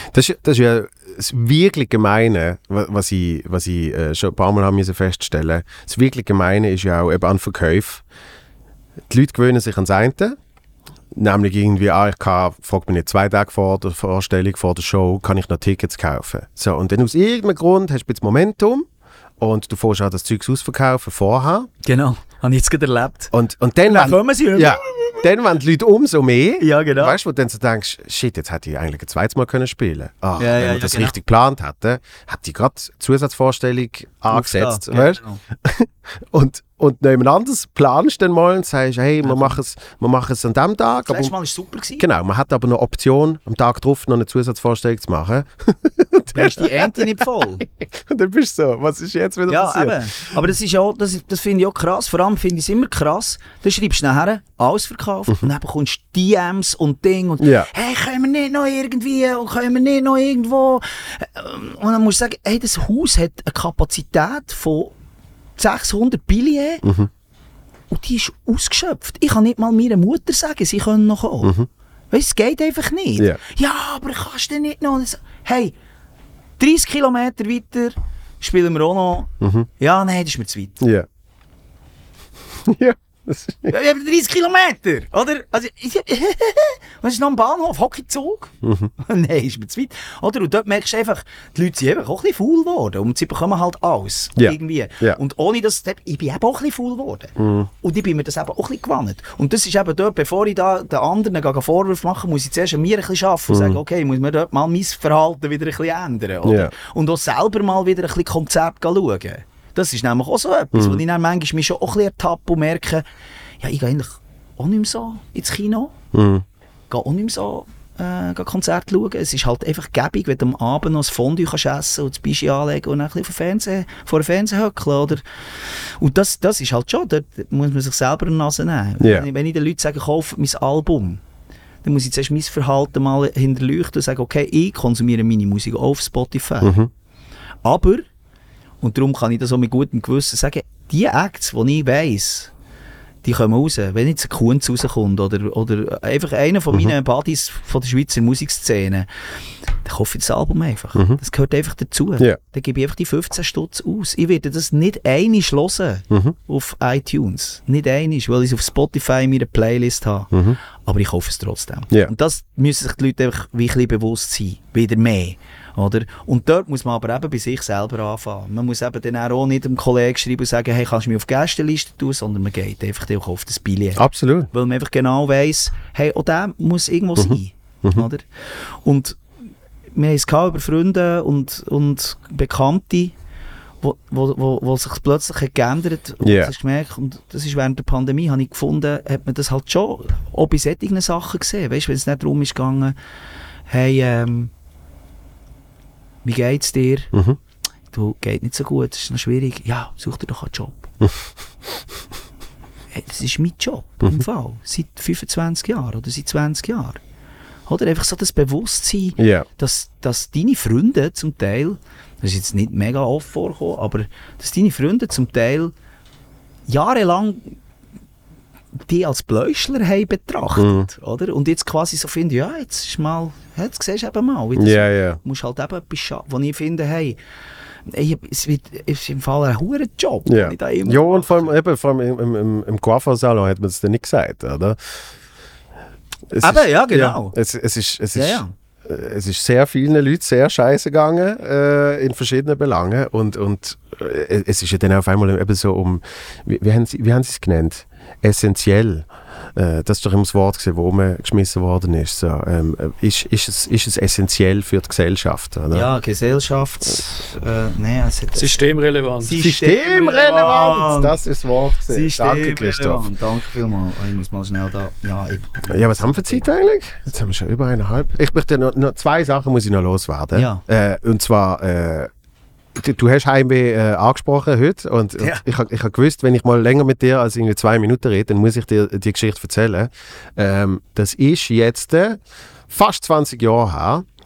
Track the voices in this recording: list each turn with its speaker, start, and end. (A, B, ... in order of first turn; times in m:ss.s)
0:00.1-0:08.0 A
0:09.1-0:10.4 A
0:11.1-0:18.9 A
0:19.4-0:21.7 A
0:21.8-0:23.3 B
0:23.3-0:41.3 A
0:23.9-0:25.2 B
0:26.6-0:27.2 B
0:30.4-0:31.2 B
0:34.3-0:35.4 B
0:39.2-0:39.6 B
0:41.1-0:42.0 B
0:42.0-0:50.3 A
0:46.3-0:47.6 B
0:49.5-1:05.0 B
0:57.4-0:57.7 A
1:05.6-1:06.9 B
1:06.8-1:07.1 A
1:07.9-1:11.6 B
1:11.4-1:11.7 A
1:12.1-1:15.7 B
1:16.6-1:20.8 B
1:19.4-1:19.7 A
1:20.8-1:21.1 A
1:22.6-1:23.7 A
1:23.7-1:53.0 B
1:28.6-1:28.9 A
1:34.4-1:35.2 A
1:37.4-1:37.7 A
1:43.5-1:43.8 A
1:46.4-1:46.7 A
1:50.7-1:51.0 A
1:53.6-1:56.0 B
1:56.1-1:56.4 A
1:56.9-2:11.2 B
2:09.0-2:09.3 A
2:11.8-2:16.8 B
2:16.6-2:16.9 A
2:17.6-2:18.1 B
2:18.8-2:22.5 B
2:23.2-2:29.1 B
2:29.8-2:58.2 B
2:36.1-2:36.4 A
2:40.3-2:40.6 A
2:54.0-2:54.5 A
2:57.2-2:58.1 A
2:58.8-2:59.2 B
3:00.0-3:03.2 B
3:03.8-3:13.0 B
3:06.2-3:06.5 A
3:13.7-3:14.5 B
3:16.2-3:17.1 B
3:17.1-3:17.4 A
3:17.9-3:20.9 B
3:22.9-3:27.0 B
3:27.7-3:35.7 B
3:29.2-3:29.5 A
3:36.7-3:37.6 B
3:38.9-3:47.2 B
3:40.6-3:40.9 A
3:44.6-3:45.2 A
3:47.9-3:51.5 B
3:50.3-3:55.1 A
3:56.3-4:15.9 A
3:56.4-3:57.4 B
3:58.2-3:58.5 B
4:15.7-4:18.7 B
4:18.4-4:20.6 C
4:19.2-4:21.2 B
4:19.4-4:23.1 A
4:21.9-4:26.4 B
4:25.7-4:32.1 A
4:30.3-4:30.6 B
4:32.7-4:44.0 A